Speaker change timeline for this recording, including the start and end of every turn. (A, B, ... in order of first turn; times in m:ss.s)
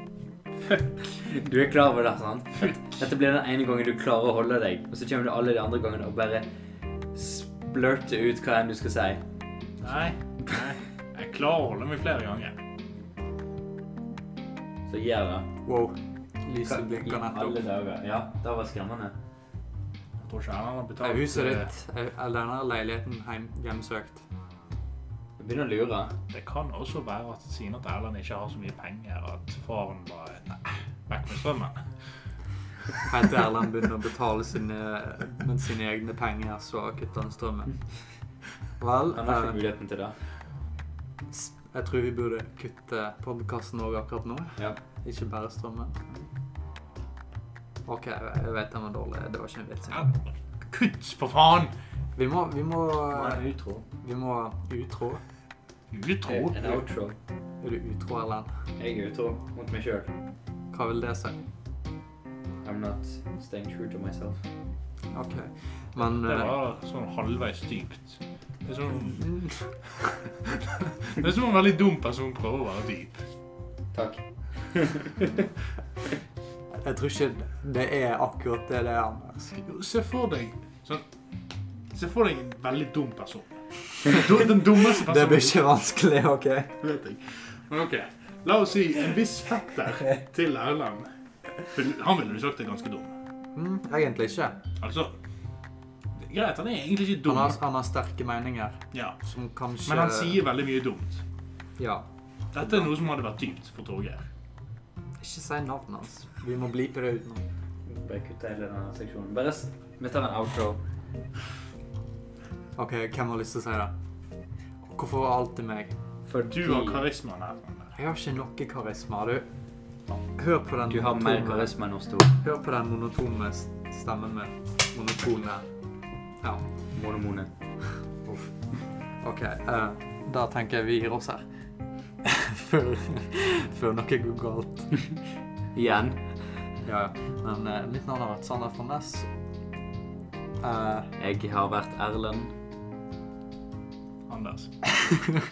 0:01.2-0:10.1 A
0:09.8-0:12.6 B
0:14.9-0:15.5 A
0:15.6-0:17.6 C
0:16.7-0:19.2 A
0:20.2-0:21.7 B
0:21.0-0:24.2 C
0:25.4-0:26.2 A
0:26.3-0:32.4 B
0:33.1-0:38.2 C
0:38.8-0:39.6 C
0:39.1-0:40.2 A
0:41.3-0:46.2 C
0:47.8-0:50.1 C
0:49.9-0:51.7 B
0:52.2-0:55.2 C
0:53.1-0:53.8 A
0:55.9-0:56.8 B
0:56.3-0:57.2 A
0:57.6-0:58.7 C
0:58.8-1:00.1 A
1:00.7-1:01.4 C
1:02.6-1:04.5 A
1:05.1-1:06.5 C
1:06.0-1:09.8 B
1:08.9-1:09.8 C
1:10.6-1:13.3 B
1:13.9-1:15.3 A
1:16.8-1:19.6 C
1:19.6-1:25.7 B
1:25.0-1:26.8 C
1:26.8-1:33.2 B
1:33.6-1:34.6 C
1:34.8-1:37.6 B
1:37.2-1:40.4 C
1:38.9-1:39.2 B
1:39.9-1:41.2 B
1:41.8-1:42.1 C
1:42.5-1:44.3 B
1:42.6-1:42.9 C
1:45.2-1:47.4 C
1:47.9-1:50.8 A
1:52.8-1:56.0 C
1:56.3-1:57.0 A
1:56.5-1:57.9 B
1:58.0-2:07.0 C
2:00.9-2:02.3 A
2:06.9-2:08.5 A
2:08.9-2:15.2 C
2:15.7-2:16.4 A
2:16.8-2:19.3 C
2:20.6-2:21.1 C
2:21.2-2:22.5 A
2:24.3-2:25.0 B